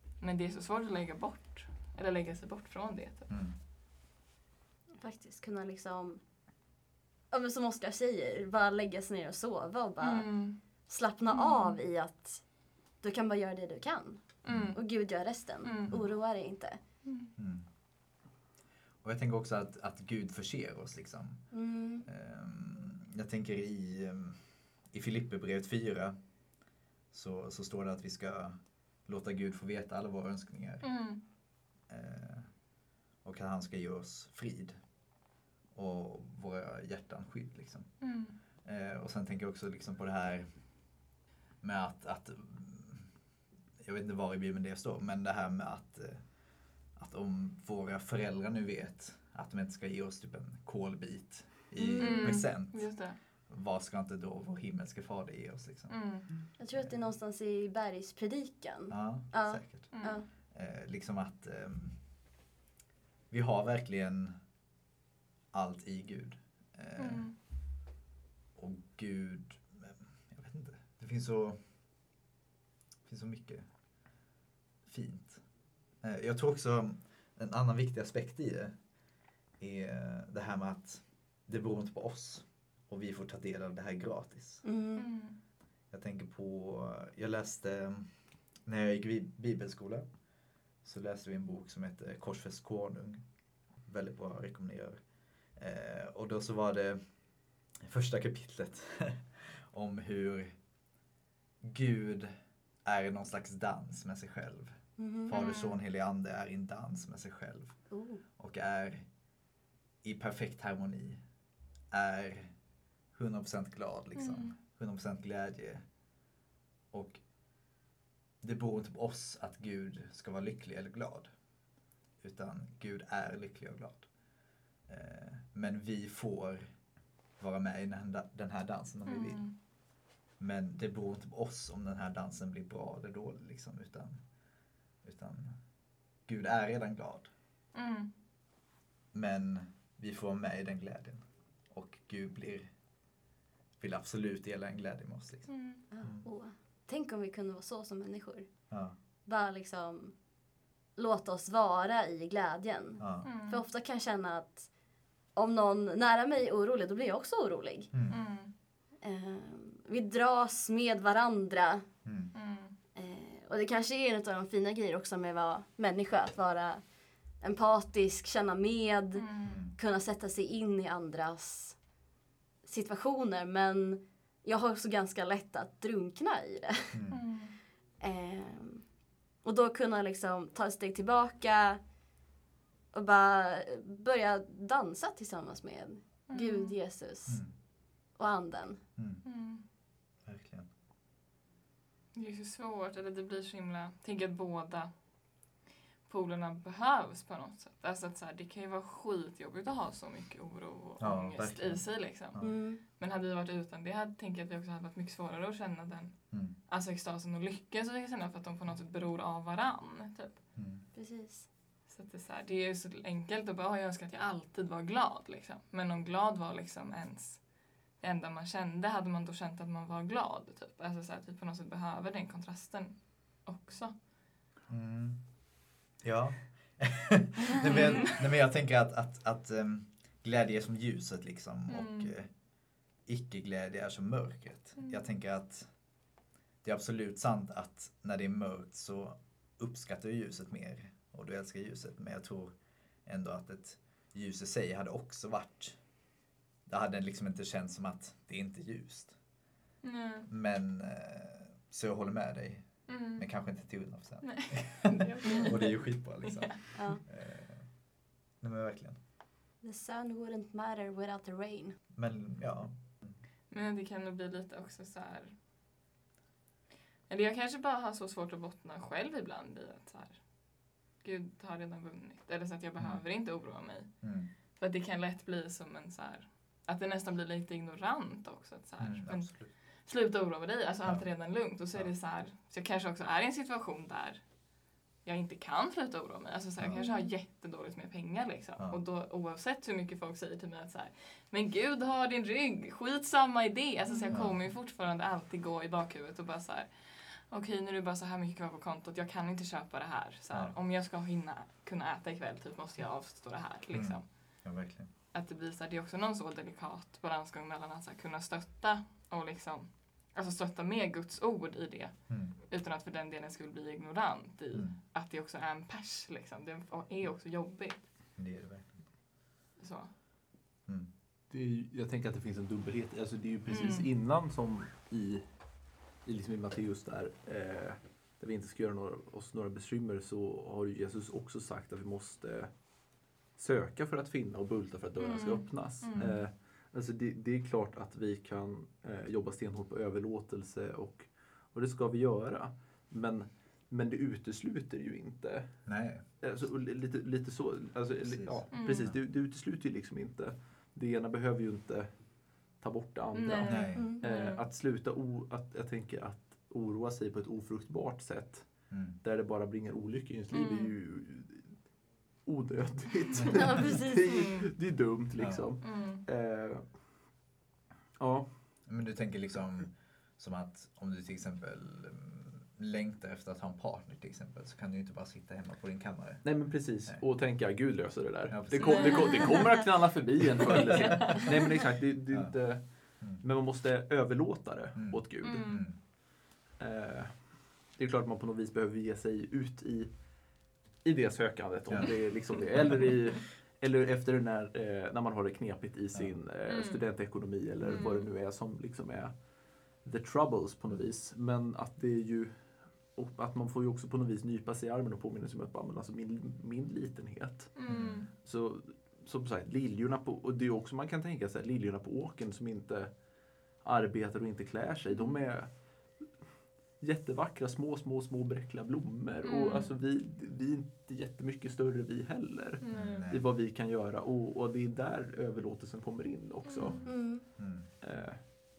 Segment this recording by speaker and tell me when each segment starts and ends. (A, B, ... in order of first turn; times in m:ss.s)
0:00.2-0:03.3 A
0:03.3-0:03.6 B
0:05.0-0:06.2 C
0:07.3-0:12.4 C
0:10.0-0:10.6 A
0:11.3-0:11.8 A
0:13.0-0:16.8 C
0:14.4-0:14.8 B
0:14.4-0:14.8 A
0:15.6-0:16.0 A
0:17.0-0:17.3 A
0:17.4-0:17.6 B
0:19.0-0:21.5 B
0:21.5-0:22.1 C
0:22.0-0:24.4 B
0:24.9-0:26.2 B
0:27.1-0:30.9 B
0:30.8-0:31.2 A
0:31.9-0:32.5 B
0:33.2-0:34.8 B
0:35.7-0:38.0 B
0:38.0-0:38.4 A
0:38.6-0:40.5 B
0:41.6-0:43.1 B
0:43.8-0:46.3 B
0:46.9-0:56.0 B
0:51.8-0:52.4 C
0:52.0-0:53.2 A
0:55.9-0:56.3 A
0:56.6-1:00.3 C
0:56.7-0:57.0 B
0:58.9-1:02.0 B
0:59.9-1:00.2 A
1:03.3-1:04.4 B
1:05.5-1:07.3 B
1:07.0-1:07.3 A
1:08.6-1:11.6 B
1:13.1-1:13.7 B
1:14.9-1:15.4 B
1:16.0-1:18.8 B
1:19.6-1:24.6 B
1:24.6-1:25.1 C
1:25.0-1:25.4 A
1:25.9-1:28.1 B
1:28.7-1:30.1 B
1:30.8-1:33.2 B
1:33.8-1:35.0 B
1:35.6-1:37.0 B
1:37.8-1:40.6 B
1:41.6-1:42.3 B
1:42.8-1:47.8 B
1:45.0-1:45.3 C
1:45.3-1:45.8 A
1:47.9-1:48.2 C
1:48.4-1:49.1 B
1:50.0-1:51.2 B
1:51.9-1:52.5 B
1:53.1-1:55.8 B
1:54.2-1:54.6 A
1:56.9-1:57.2 B
1:58.4-2:01.3 B
2:02.2-2:04.1 B
2:04.9-2:06.7 B
2:07.4-2:09.6 B
2:09.1-2:09.5 A
2:10.4-2:14.2 B
2:15.0-2:15.6 B
2:16.3-2:17.3 B
2:17.7-2:18.1 A
2:19.1-2:22.7 B
2:23.8-2:25.5 B
2:25.5-2:25.8 A
2:25.9-2:28.6 C
2:28.7-2:29.0 B
2:29.2-2:30.2 C
2:31.0-2:34.7 C
2:33.0-2:33.3 B
2:33.2-2:33.6 A
2:35.3-2:37.9 C
2:37.9-2:38.2 B
2:38.1-2:38.5 A
2:39.0-2:41.9 C
2:42.0-2:42.3 B
2:42.3-2:42.8 A
2:43.0-2:46.8 C
2:47.4-2:51.8 C
2:49.2-2:49.6 A
2:49.4-2:49.8 B
2:52.6-2:57.0 C
2:56.9-2:57.2 B
2:57.1-2:57.6 A
2:58.0-2:58.9 C
2:59.4-3:01.8 C
3:02.9-3:07.4 C
3:06.3-3:06.8 A
3:07.3-3:07.5 B
3:08.1-3:08.8 C
3:09.0-3:09.2 B
3:09.2-3:09.6 A
3:10.2-3:10.7 B
3:12.1-3:14.9 A
3:16.1-3:30.4 A
3:21.0-3:22.6 B
3:22.4-3:22.8 C
3:26.3-3:26.6 B
3:30.6-3:30.8 B
3:30.9-3:31.5 C
3:31.9-3:44.0 A
3:44.7-3:45.3 B
3:46.0-3:52.3 B
3:51.7-3:52.1 A
3:53.1-3:55.7 B
3:54.8-3:55.1 A
3:56.6-4:02.6 B
4:03.1-4:05.8 B
4:06.7-4:09.2 B
4:09.8-4:10.3 A
4:10.3-4:17.7 B
4:12.9-4:13.3 A
4:14.2-4:16.6 A
4:16.8-4:17.0 C
4:18.4-4:19.0 B
4:19.6-4:21.8 C
4:22.0-4:23.2 B
4:23.5-4:25.3 A
4:27.1-4:44.3 A
4:34.0-4:34.3 B
4:38.8-4:39.5 B
4:40.8-4:41.1 B
4:45.0-5:04.5 A
4:46.6-4:46.8 B
4:53.9-4:54.1 C
4:54.1-4:54.4 B
5:03.7-5:04.9 B
5:05.1-5:17.9 A
5:12.1-5:12.4 B
5:14.5-5:14.8 B
5:18.2-5:18.8 B
5:19.6-5:19.9 A
5:21.3-6:06.9 D
5:23.5-5:23.9 A
5:35.0-5:36.1 A
5:36.0-5:36.3 B
5:45.6-5:46.1 B
5:48.0-5:49.0 B
5:48.5-5:48.9 A
5:53.2-5:54.4 A
5:53.5-5:53.8 B
5:58.7-5:59.0 B
6:00.3-6:00.7 A
6:03.3-6:04.4 C
6:04.1-6:04.4 A
6:05.2-6:05.5 B
6:05.6-6:06.0 A
6:08.0-6:08.3 D
6:08.7-6:17.0 B
6:16.2-6:25.8 D
6:18.3-6:19.4 B
6:18.6-6:19.4 A
6:20.8-6:21.2 B
6:22.1-6:23.2 B
6:24.8-6:25.8 B
6:25.2-6:25.7 A
6:26.6-7:08.2 D
6:31.7-6:32.0 B
6:35.9-6:36.2 B
6:36.5-6:38.1 A
6:37.6-6:37.9 B
6:47.6-6:48.1 A
6:47.7-6:48.1 B
6:54.9-6:55.2 A
6:59.2-6:59.7 A
7:02.6-7:03.0 A
7:02.7-7:03.3 B
7:06.4-7:06.8 A
7:06.8-7:07.7 B
7:06.9-7:07.2 C